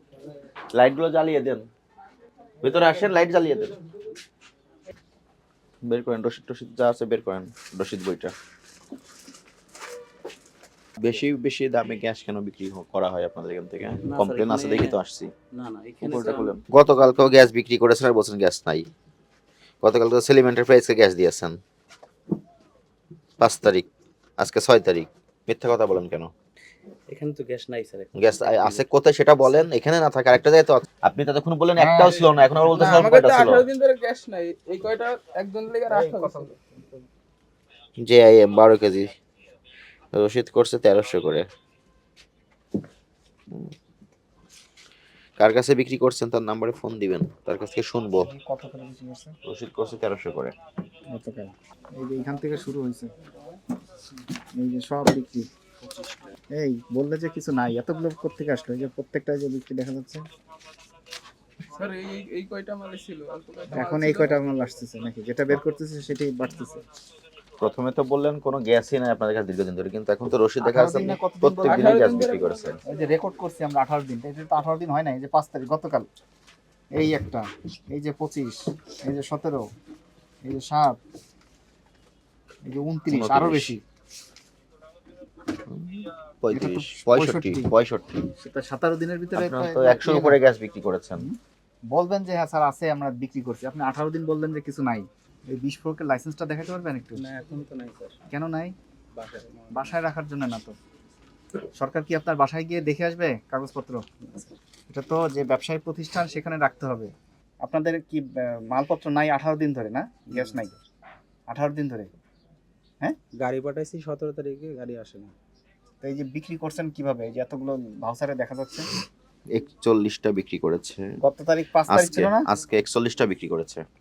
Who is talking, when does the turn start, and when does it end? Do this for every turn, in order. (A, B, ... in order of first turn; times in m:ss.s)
0:00.7-0:01.6 A
0:02.6-0:03.8 A
0:05.8-0:08.3 A
0:11.0-0:15.3 A
0:14.0-0:15.0 B
0:15.5-0:16.6 B
0:16.0-0:18.9 A
0:19.8-0:21.6 A
0:23.4-0:23.9 A
0:24.4-0:26.3 A
0:27.1-0:28.8 B
0:28.2-0:33.7 A
0:31.8-0:33.4 C
0:32.7-0:36.6 D
0:35.9-0:37.0 C
0:38.0-0:39.1 A
0:40.1-0:41.4 A
0:45.4-0:48.3 A
0:48.2-0:49.4 C
0:49.5-0:50.5 A
0:51.1-0:53.1 C
0:54.6-0:55.5 C
0:55.8-0:56.4 B
0:56.5-1:00.2 C
1:01.7-1:04.3 D
1:03.7-1:04.4 B
1:03.7-1:06.8 C
1:07.6-1:12.8 A
1:10.6-1:12.2 C
1:11.7-1:12.8 D
1:12.9-1:16.1 C
1:16.9-1:19.6 C
1:20.4-1:21.0 C
1:22.6-1:23.8 C
1:23.1-1:23.8 A
1:25.7-1:28.2 A
1:26.5-1:27.7 C
1:28.4-1:30.4 C
1:29.4-1:31.3 A
1:31.9-1:37.2 C
1:37.2-1:38.2 B
1:38.3-1:38.8 C
1:39.1-1:40.0 B
1:39.7-1:40.8 C
1:41.8-1:44.1 C
1:44.3-1:44.5 B
1:44.9-1:47.1 C
1:47.6-1:50.8 C
1:50.3-1:50.7 B
1:51.5-1:52.1 C
1:53.4-1:55.3 B
1:56.0-1:58.9 C
1:59.6-2:01.2 A
2:01.2-2:02.5 C
2:01.9-2:03.8 A